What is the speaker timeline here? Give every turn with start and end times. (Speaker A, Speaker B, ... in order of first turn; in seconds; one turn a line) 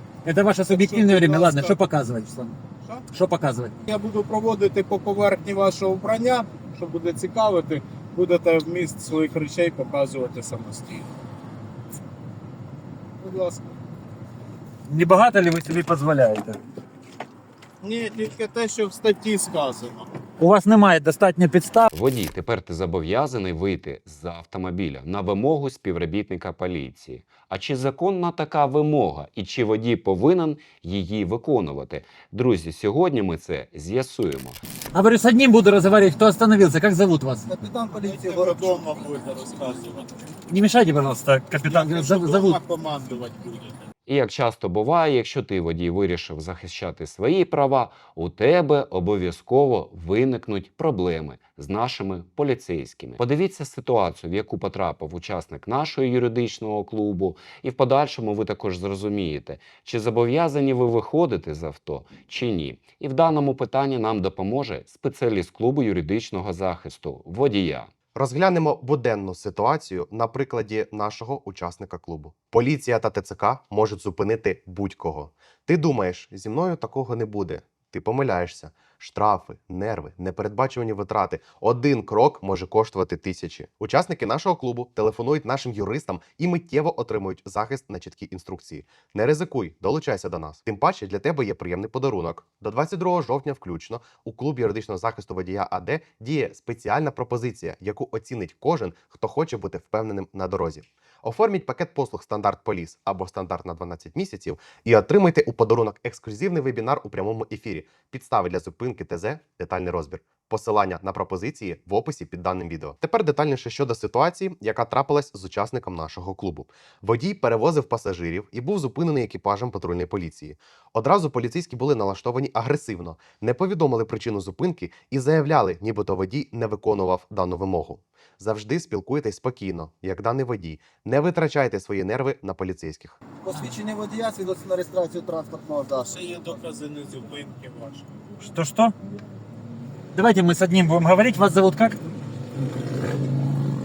Speaker A: 0.2-2.6
Speaker B: 0.7-1.8
Speaker A: 3.1-3.8
Speaker B: 3.9-11.1
Speaker B: 13.2-13.8
Speaker A: 14.9-16.6
Speaker B: 17.8-20.1
Speaker A: 20.4-21.9
Speaker C: 21.9-34.6
Speaker A: 34.9-37.5
Speaker D: 37.5-38.9
Speaker B: 37.9-40.1
Speaker A: 40.5-42.6
Speaker B: 41.6-43.8
Speaker C: 44.1-67.9
Speaker E: 68.1-133.2
Speaker D: 133.4-136.5
Speaker B: 136.0-138.1
Speaker A: 138.4-138.9
Speaker A: 140.1-142.0